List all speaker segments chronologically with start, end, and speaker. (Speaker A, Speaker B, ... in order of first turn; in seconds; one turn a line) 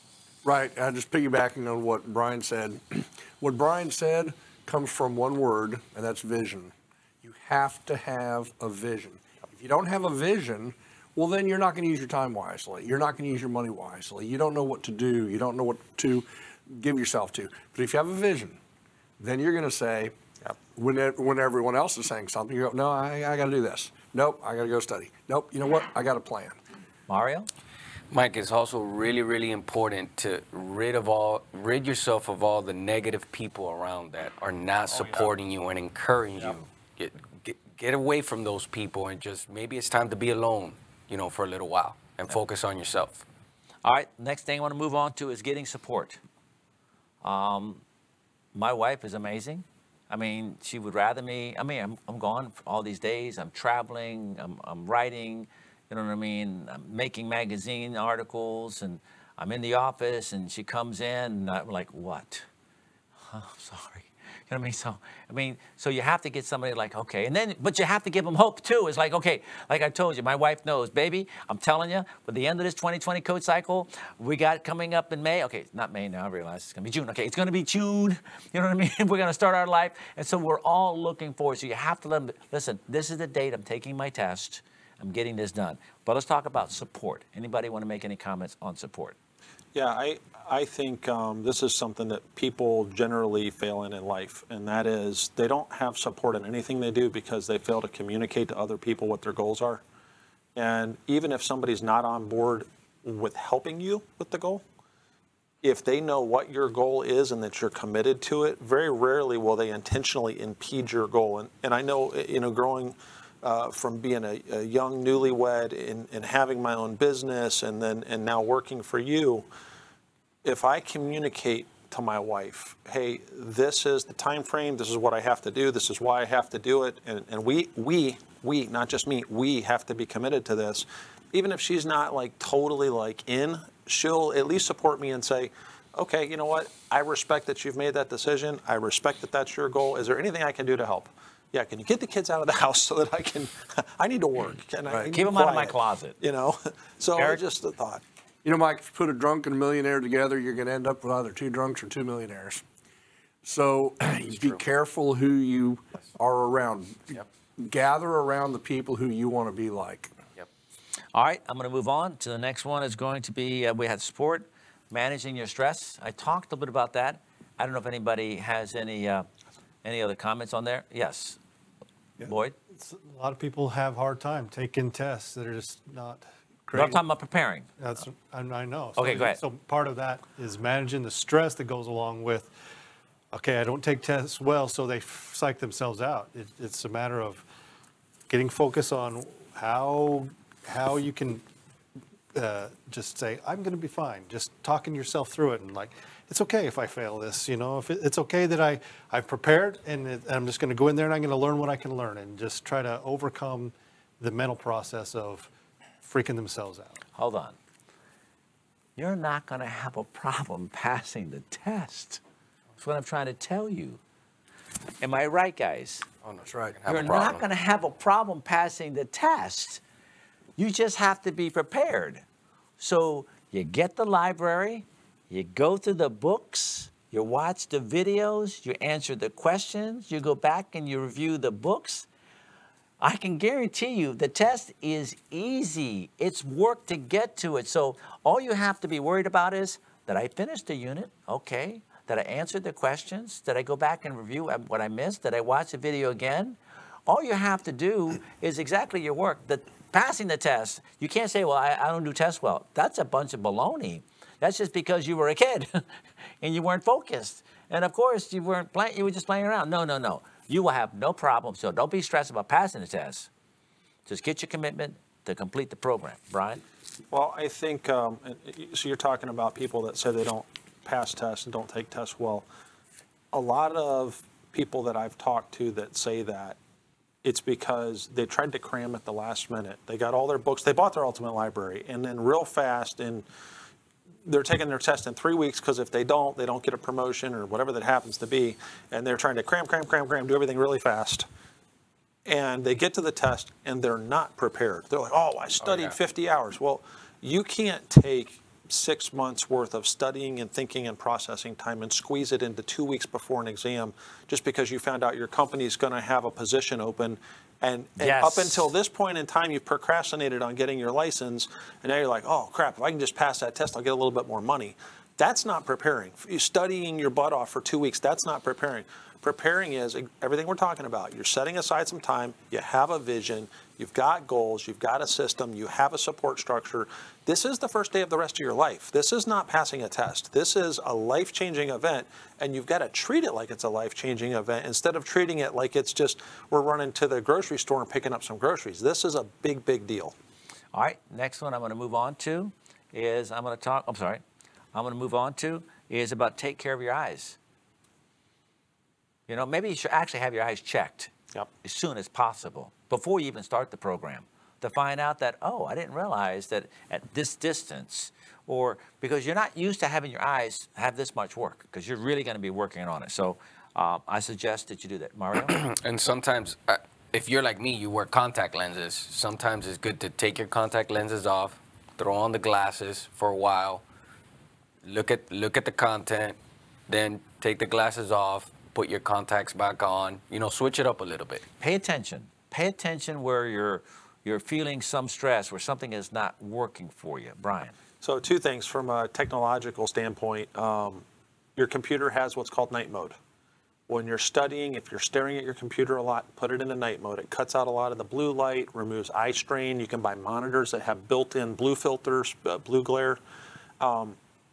Speaker A: 0.4-18.6
Speaker A: 19.2-20.1
Speaker A: 20.8-26.6
Speaker B: 27.1-27.5
Speaker C: 28.1-43.2
Speaker B: 43.8-46.2
Speaker B: 47.2-47.8
Speaker B: 48.5-62.5
Speaker B: 63.3-89.2
Speaker D: 89.7-99.8
Speaker D: 100.5-104.6
Speaker D: 105.6-119.4
Speaker D: 120.4-148.0
Speaker B: 145.1-146.2
Speaker B: 147.2-147.4
Speaker A: 148.4-152.6
Speaker A: 153.4-160.1
Speaker B: 161.1-169.3
Speaker B: 169.8-171.4
Speaker E: 172.2-177.0
Speaker B: 172.2-172.6
Speaker B: 176.7-177.7
Speaker E: 177.8-182.5
Speaker B: 178.9-179.4
Speaker E: 183.3-187.4
Speaker E: 188.3-191.4
Speaker E: 192.3-205.5
Speaker E: 206.0-207.0
Speaker B: 207.1-207.6
Speaker B: 208.9-212.2
Speaker B: 212.8-214.0
Speaker B: 215.0-216.1
Speaker C: 216.2-217.4
Speaker A: 216.4-216.8
Speaker B: 216.9-219.8
Speaker B: 220.6-222.2
Speaker B: 222.8-232.1
Speaker B: 233.0-255.8
Speaker B: 256.4-263.3
Speaker B: 264.1-266.6
Speaker D: 267.1-272.4
Speaker D: 273.3-276.6
Speaker D: 277.2-283.2
Speaker D: 284.2-291.3
Speaker D: 292.2-340.1
Speaker C: 295.6-295.9
Speaker B: 308.0-308.7
Speaker B: 340.7-344.2
Speaker B: 344.7-347.4
Speaker B: 349.3-351.1
Speaker B: 351.6-365.6
Speaker C: 365.5-373.8
Speaker C: 374.8-376.4
Speaker C: 376.9-381.4
Speaker B: 381.6-387.7
Speaker D: 388.0-391.0
Speaker D: 391.6-393.1
Speaker D: 393.9-403.2
Speaker D: 403.8-404.2